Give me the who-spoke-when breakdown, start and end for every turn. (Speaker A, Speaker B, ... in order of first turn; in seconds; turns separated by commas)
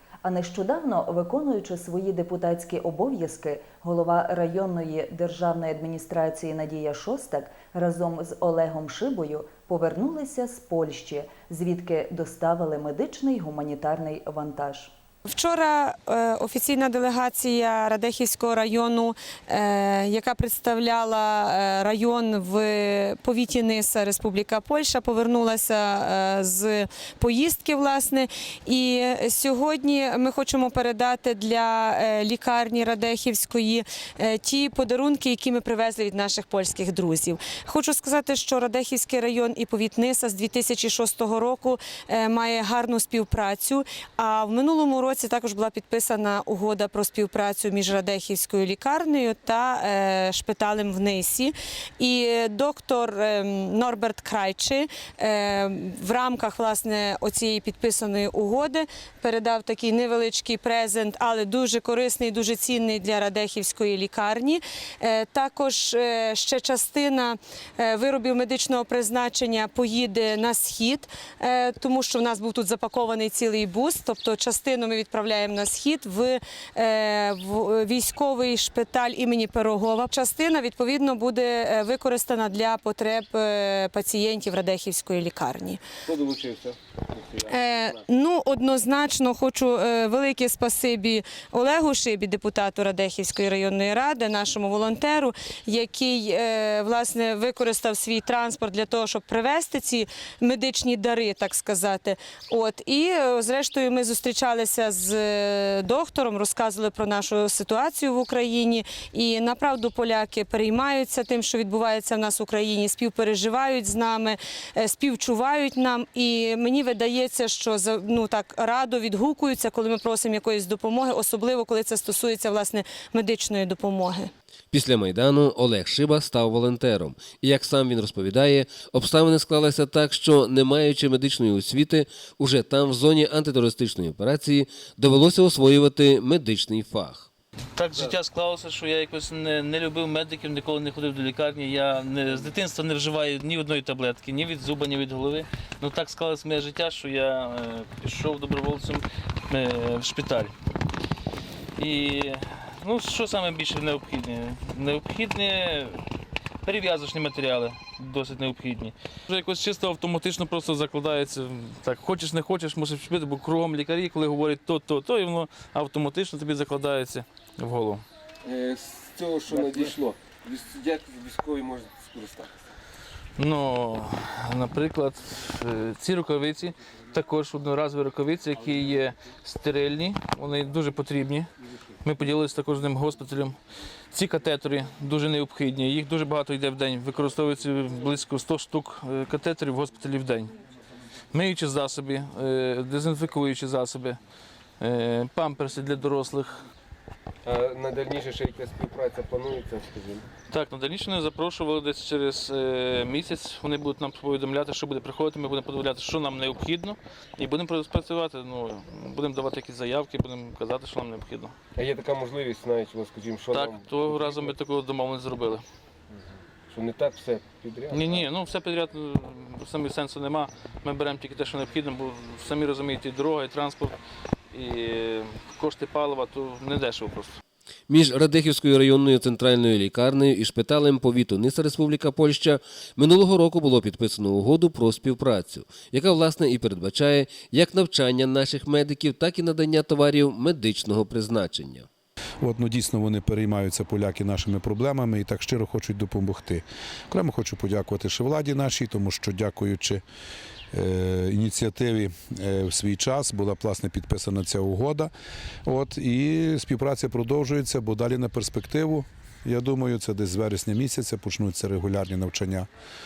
Speaker A: 0.2-14.9, Speaker B: 15.3-85.8, Speaker C: 86.1-88.0, Speaker B: 87.5-124.3, Speaker D: 124.7-137.3, Speaker E: 137.8-150.5, Speaker E: 151.8-156.0, Speaker E: 156.7-168.0, Speaker C: 168.4-172.5, Speaker E: 173.4-181.5, Speaker E: 182.0-183.6, Speaker E: 184.1-190.5, Speaker E: 191.3-194.2, Speaker E: 194.8-196.6, Speaker C: 197.4-200.2, Speaker E: 200.5-211.5, Speaker C: 211.8-214.5, Speaker E: 213.5-215.6, Speaker C: 216.7-218.2, Speaker E: 217.9-224.0, Speaker E: 224.5-227.4, Speaker D: 227.9-241.9, Speaker F: 242.4-250.0, Speaker F: 250.7-255.1, Speaker F: 255.7-262.7